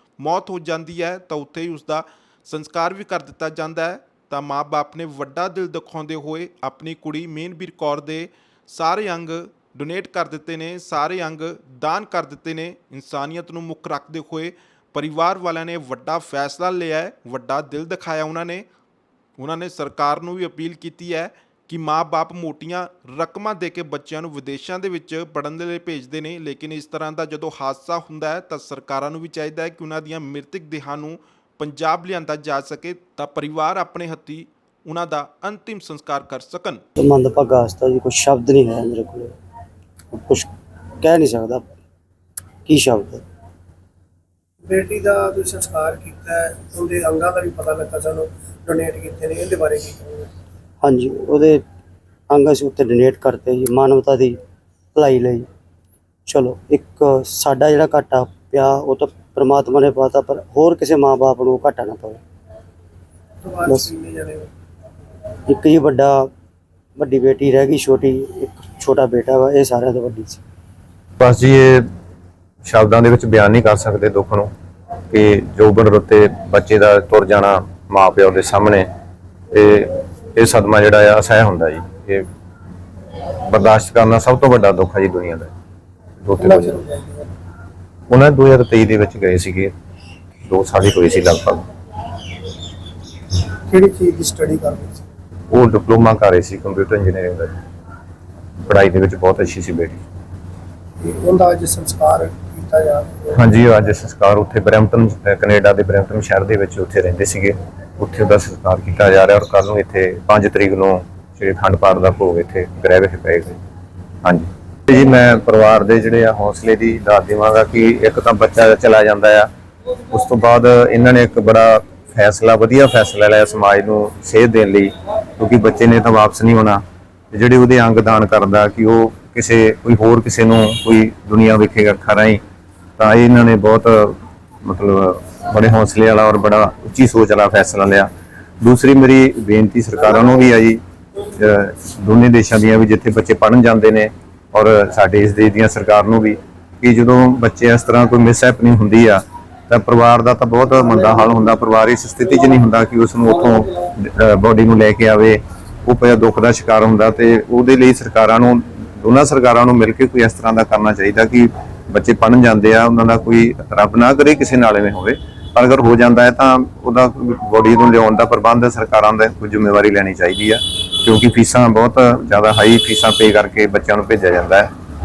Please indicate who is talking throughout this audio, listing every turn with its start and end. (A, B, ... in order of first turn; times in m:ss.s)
0:00.2-0:18.6 A
0:19.4-0:36.8 A
0:37.0-0:39.3 B
0:40.1-0:40.5 B
0:41.0-0:41.7 B
0:42.7-0:43.2 B
0:44.6-0:50.3 C
0:50.8-0:51.6 B
0:52.3-0:54.4 B
0:54.9-0:55.5 B
0:56.3-1:02.2 B
1:03.4-1:04.5 C
1:05.5-1:06.3 B
1:07.0-1:10.4 B
1:11.2-1:11.8 D
1:12.6-1:14.5 D
1:15.1-1:18.9 D
1:19.5-1:22.3 D
1:23.4-1:25.5 D
1:26.2-1:26.8 D
1:26.4-1:27.3 C
1:28.1-1:29.7 D
1:30.5-1:31.6 D
1:33.7-1:35.0 C
1:35.5-1:37.6 D
1:38.6-1:40.0 D
1:41.0-1:43.4 C
1:43.3-1:53.6 D
1:54.2-1:59.5 D
2:00.1-2:12.4 D
2:13.0-2:18.1 D
2:18.6-2:20.8 D
2:21.3-2:54.7 D